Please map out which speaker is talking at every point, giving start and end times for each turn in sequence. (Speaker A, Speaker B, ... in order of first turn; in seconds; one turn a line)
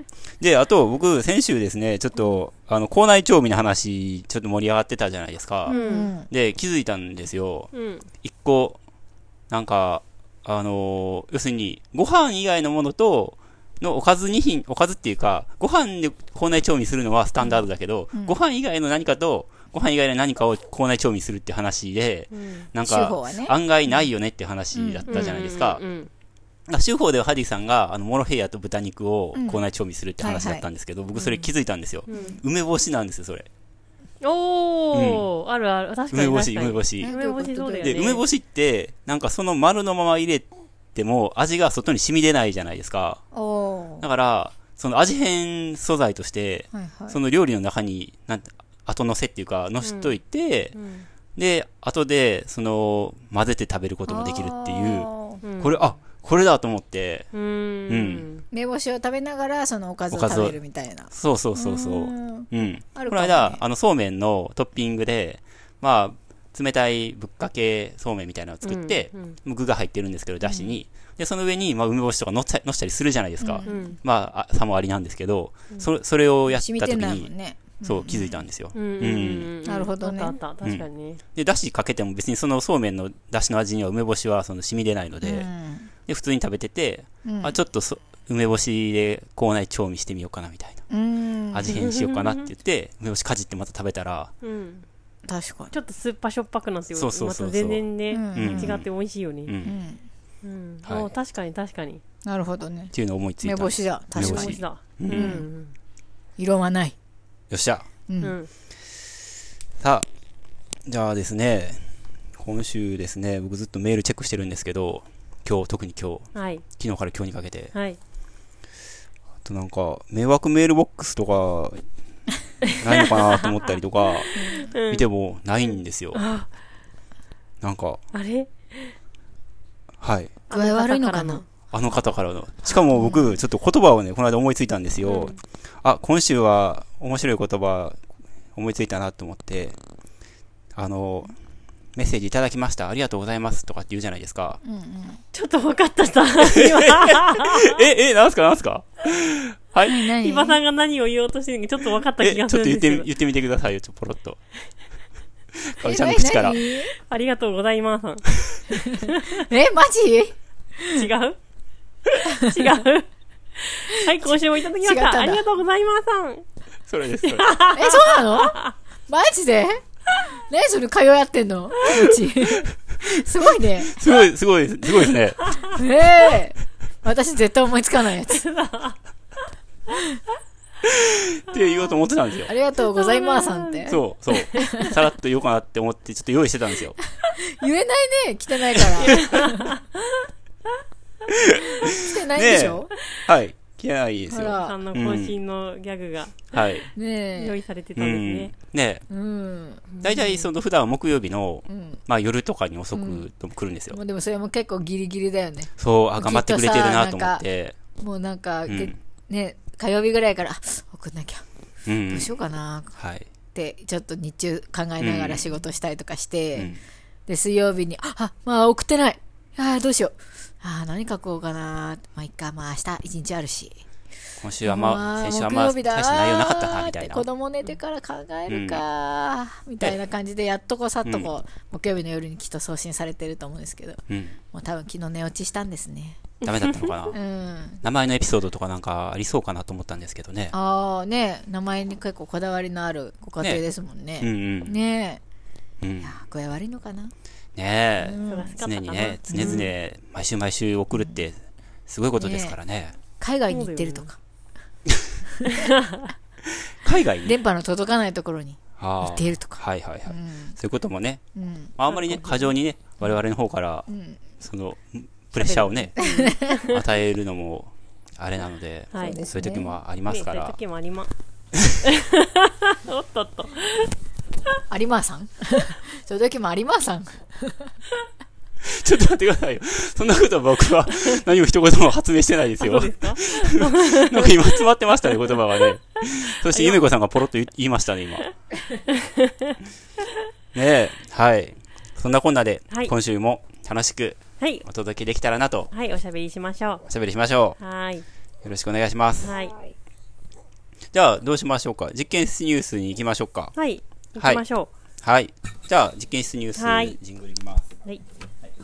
Speaker A: 0.4-8.8
Speaker B: 5.7-6.1
Speaker C: 5.7-6.3
Speaker B: 7.7-8.1
Speaker A: 9.5-25.8
Speaker C: 18.1-18.4
Speaker B: 22.3-22.7
Speaker C: 22.9-23.6
Speaker C: 24.7-25.1
Speaker B: 25.1-26.1
Speaker A: 26.7-33.5
Speaker C: 29.3-29.6
Speaker C: 30.2-30.6
Speaker B: 31.1-31.5
Speaker B: 32.1-32.4
Speaker B: 34.2-38.2
Speaker A: 34.9-35.3
Speaker A: 36.1-37.1
Speaker C: 37.0-38.1
Speaker A: 37.8-43.2
Speaker C: 43.3-44.0
Speaker A: 44.0-50.7
Speaker C: 46.7-47.2
Speaker B: 49.8-50.2
Speaker B: 50.7-51.1
Speaker A: 51.4-57.3
Speaker C: 54.1-55.4
Speaker B: 55.4-55.8
Speaker B: 57.3-58.4
Speaker A: 57.9-58.2
Speaker C: 58.5-63.6
Speaker A: 60.1-77.3
Speaker B: 68.6-69.4
Speaker C: 70.5-70.7
Speaker C: 73.4-74.0
Speaker B: 73.6-74.0
Speaker C: 76.5-78.4
Speaker A: 77.8-79.5
Speaker B: 78.7-81.2
Speaker C: 79.6-80.4
Speaker A: 80.6-85.5
Speaker C: 85.2-85.9
Speaker A: 86.0-90.8
Speaker C: 87.2-87.6
Speaker C: 90.9-91.7
Speaker A: 91.5-94.3
Speaker B: 91.7-92.5
Speaker B: 94.4-94.8
Speaker C: 95.3-95.8
Speaker B: 95.7-99.5
Speaker A: 96.9-98.9
Speaker C: 98.1-98.7
Speaker A: 99.5-99.7
Speaker C: 99.6-100.0
Speaker B: 100.4-102.0
Speaker A: 100.8-101.1
Speaker C: 102.2-104.6
Speaker A: 102.9-105.4
Speaker B: 104.2-105.7
Speaker C: 105.1-105.5
Speaker C: 106.4-106.9
Speaker A: 107.5-107.9
Speaker C: 108.1-108.3
Speaker B: 108.2-108.5
Speaker A: 109.8-110.0
Speaker A: 110.9-117.7
Speaker B: 116.3-116.6
Speaker B: 117.7-118.0
Speaker A: 119.4-121.8
Speaker B: 122.6-123.5
Speaker A: 122.8-126.2
Speaker B: 124.2-125.0
Speaker C: 124.3-124.7
Speaker B: 126.1-126.5
Speaker A: 127.6-128.0
Speaker B: 128.1-128.9
Speaker A: 130.0-130.4
Speaker B: 130.5-131.4
Speaker C: 130.5-131.4
Speaker A: 131.7-138.0
Speaker C: 132.9-133.3
Speaker B: 135.0-135.4
Speaker A: 138.5-139.8
Speaker A: 140.7-141.3
Speaker A: 141.9-144.6
Speaker C: 144.6-145.2
Speaker B: 145.3-147.8
Speaker A: 146.4-150.1
Speaker C: 149.8-150.6
Speaker B: 150.2-153.1
Speaker A: 152.2-154.4
Speaker A: 155.5-156.6
Speaker C: 155.8-156.9
Speaker B: 157.0-159.4
Speaker C: 158.8-161.1
Speaker B: 160.9-161.4
Speaker B: 162.2-166.4
Speaker C: 162.2-162.6
Speaker C: 164.0-165.4
Speaker A: 166.9-167.7
Speaker B: 167.2-168.7
Speaker C: 167.7-169.8
Speaker C: 170.5-174.1
Speaker A: 173.9-175.6
Speaker B: 175.4-175.7
Speaker C: 175.7-178.4
Speaker B: 178.3-178.9
Speaker A: 180.8-182.5
Speaker B: 181.6-181.9
Speaker C: 182.5-184.0
Speaker B: 182.8-184.9
Speaker A: 183.9-187.0
Speaker C: 184.6-184.9
Speaker C: 187.3-189.6
Speaker A: 189.0-189.3
Speaker B: 189.0-189.8
Speaker A: 191.3-195.4
Speaker C: 192.1-192.9
Speaker C: 194.3-194.8
Speaker B: 194.5-198.5
Speaker A: 196.5-196.9
Speaker C: 196.9-197.6
Speaker A: 197.9-199.0
Speaker C: 199.1-199.9
Speaker B: 199.9-200.5
Speaker A: 200.0-204.0
Speaker C: 201.7-202.0
Speaker C: 202.9-203.3
Speaker C: 203.9-211.4
Speaker A: 205.8-207.8
Speaker A: 208.7-208.9
Speaker A: 211.9-212.4
Speaker C: 212.1-212.9
Speaker A: 212.9-213.3
Speaker C: 213.5-216.7
Speaker A: 215.0-215.4
Speaker A: 216.6-216.8
Speaker C: 217.3-223.8
Speaker A: 224.4-227.2
Speaker C: 224.6-236.3
Speaker A: 228.5-228.8
Speaker A: 231.0-231.3
Speaker A: 234.1-234.4
Speaker B: 236.4-237.1
Speaker A: 236.4-237.2
Speaker C: 237.1-237.8
Speaker A: 237.8-240.5
Speaker C: 240.5-245.2
Speaker A: 243.4-243.6
Speaker A: 244.2-244.8
Speaker A: 245.8-246.2
Speaker C: 246.0-247.1
Speaker A: 247.5-253.0
Speaker C: 248.0-248.6
Speaker B: 248.2-249.7
Speaker C: 249.2-249.7
Speaker C: 250.9-251.2
Speaker C: 252.2-252.6
Speaker C: 253.1-254.2
Speaker B: 253.5-254.1
Speaker B: 255.4-256.1
Speaker A: 256.8-257.4
Speaker C: 257.2-260.6
Speaker A: 258.8-261.2
Speaker C: 261.4-261.8
Speaker A: 261.8-270.6
Speaker B: 261.9-262.5
Speaker C: 263.9-264.2
Speaker C: 265.4-266.6
Speaker B: 266.0-266.8
Speaker B: 268.9-269.2
Speaker C: 269.0-269.8
Speaker B: 270.1-271.1
Speaker B: 271.8-273.9
Speaker C: 274.7-277.7
Speaker A: 278.6-288.3
Speaker B: 282.6-285.7
Speaker B: 286.4-286.8
Speaker B: 288.9-289.5
Speaker A: 290.5-295.7
Speaker B: 294.4-294.6
Speaker B: 295.7-296.8
Speaker A: 296.9-297.6
Speaker B: 297.6-298.0
Speaker A: 298.4-299.3
Speaker B: 299.2-299.6
Speaker A: 300.9-303.5
Speaker B: 303.5-304.7
Speaker A: 304.2-304.4
Speaker A: 305.0-307.7
Speaker B: 306.6-306.9